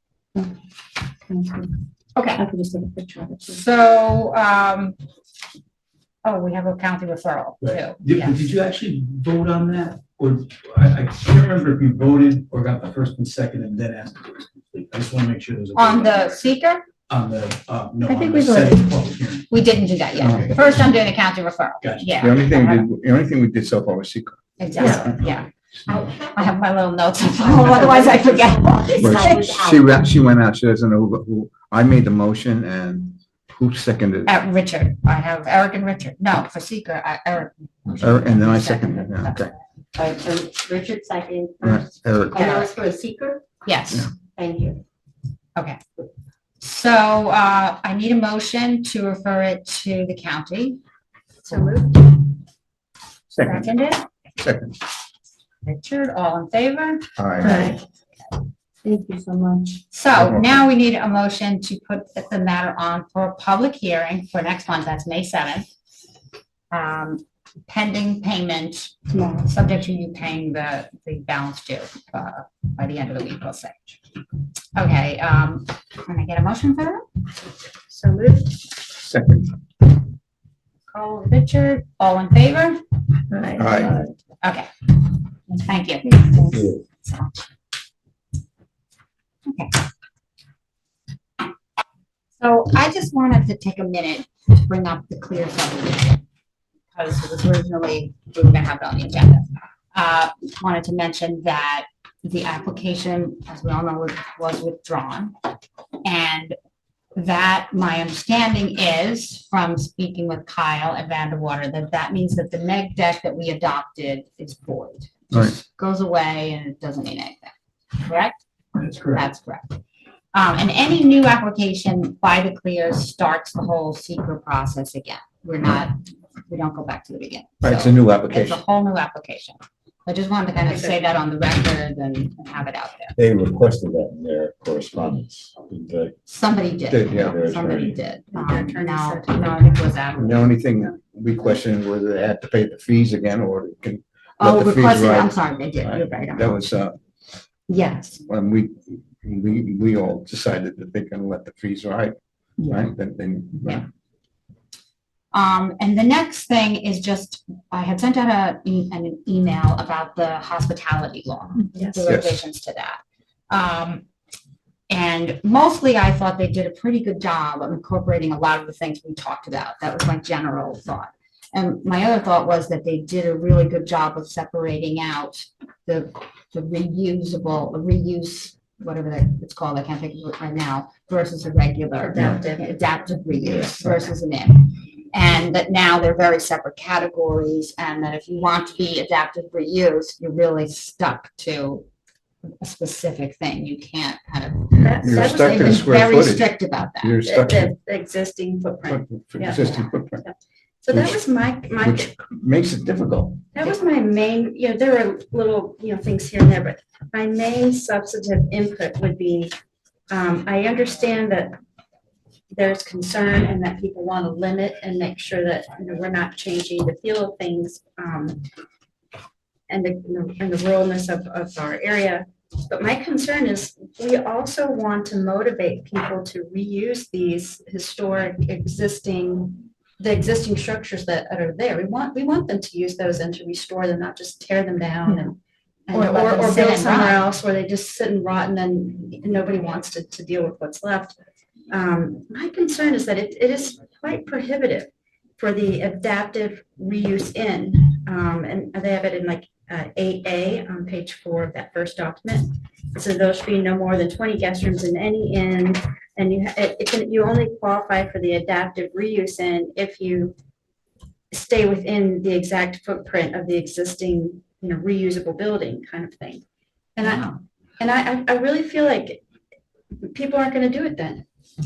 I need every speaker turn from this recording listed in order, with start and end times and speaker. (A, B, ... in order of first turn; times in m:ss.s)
0:01.2-0:01.7 A
0:02.1-0:02.4 B
0:02.4-0:03.6 A
0:03.5-0:05.0 B
0:06.2-0:08.5 B
0:07.6-0:16.4 C
0:15.8-0:16.8 B
0:17.1-0:19.5 C
0:18.1-0:18.8 A
0:19.5-0:22.9 B
0:20.1-0:20.8 C
0:20.2-0:20.5 D
0:21.8-0:22.1 C
0:22.2-0:25.1 D
0:24.6-0:25.5 B
0:24.8-0:25.1 A
0:25.9-0:26.4 A
0:26.1-0:29.6 B
0:27.4-0:29.8 A
0:29.0-0:34.3 D
0:34.3-0:39.6 B
0:38.0-0:39.5 D
0:40.0-0:43.4 A
0:41.6-0:42.6 D
0:42.4-0:42.7 B
0:43.6-0:44.1 B
0:44.2-0:44.8 A
0:45.6-0:45.8 B
0:46.6-0:50.8 B
0:51.5-0:52.2 A
0:51.5-0:51.8 B
0:53.3-0:53.7 D
0:53.4-0:54.1 B
0:54.4-0:54.8 D
0:55.6-0:57.8 B
0:57.2-0:57.7 D
0:57.4-0:57.8 A
0:58.8-0:59.8 A
0:59.9-1:05.7 B
1:00.1-1:00.4 D
1:06.7-1:13.9 B
1:14.8-1:17.0 B
1:17.9-1:18.5 A
1:19.0-1:19.5 D
1:20.9-1:22.8 B
1:23.3-1:24.1 A
1:23.6-1:24.0 D
1:24.4-1:24.7 B
1:25.5-1:27.5 B
1:29.5-1:29.8 B
1:32.4-1:36.2 B
1:37.0-1:45.3 B
1:46.0-1:46.6 B
1:47.1-1:58.4 B
1:58.8-1:59.2 C
1:59.0-1:59.8 B
2:00.3-2:13.2 B
2:07.6-2:08.6 D
2:10.6-2:11.0 A
2:13.2-2:16.1 E
2:16.3-2:20.4 B
2:16.9-2:17.4 D
2:17.2-2:18.0 E
2:18.3-2:19.8 A
2:20.2-2:26.9 D
2:24.4-2:26.7 B
2:27.7-2:28.2 B
2:28.2-2:32.1 D
2:32.7-2:33.8 D
2:35.3-2:44.0 B
2:42.0-2:42.4 D
2:44.9-3:11.8 B
3:02.1-3:02.7 A
3:12.6-3:17.2 B
3:14.7-3:17.7 D
3:14.8-3:15.8 A
3:17.2-3:20.3 A
3:18.9-3:20.2 D
3:20.8-3:22.1 A
3:20.9-3:21.2 D
3:21.8-3:23.4 D
3:23.5-3:29.5 A
3:30.1-3:31.6 A
3:32.5-3:38.4 A
3:39.7-3:55.4 A
3:55.9-4:01.2 A
3:55.9-3:57.2 B
4:01.7-4:20.3 A
4:21.3-4:26.4 A
4:27.0-4:27.3 A
4:27.0-4:27.3 B
4:27.8-4:29.2 A
4:30.0-4:31.2 A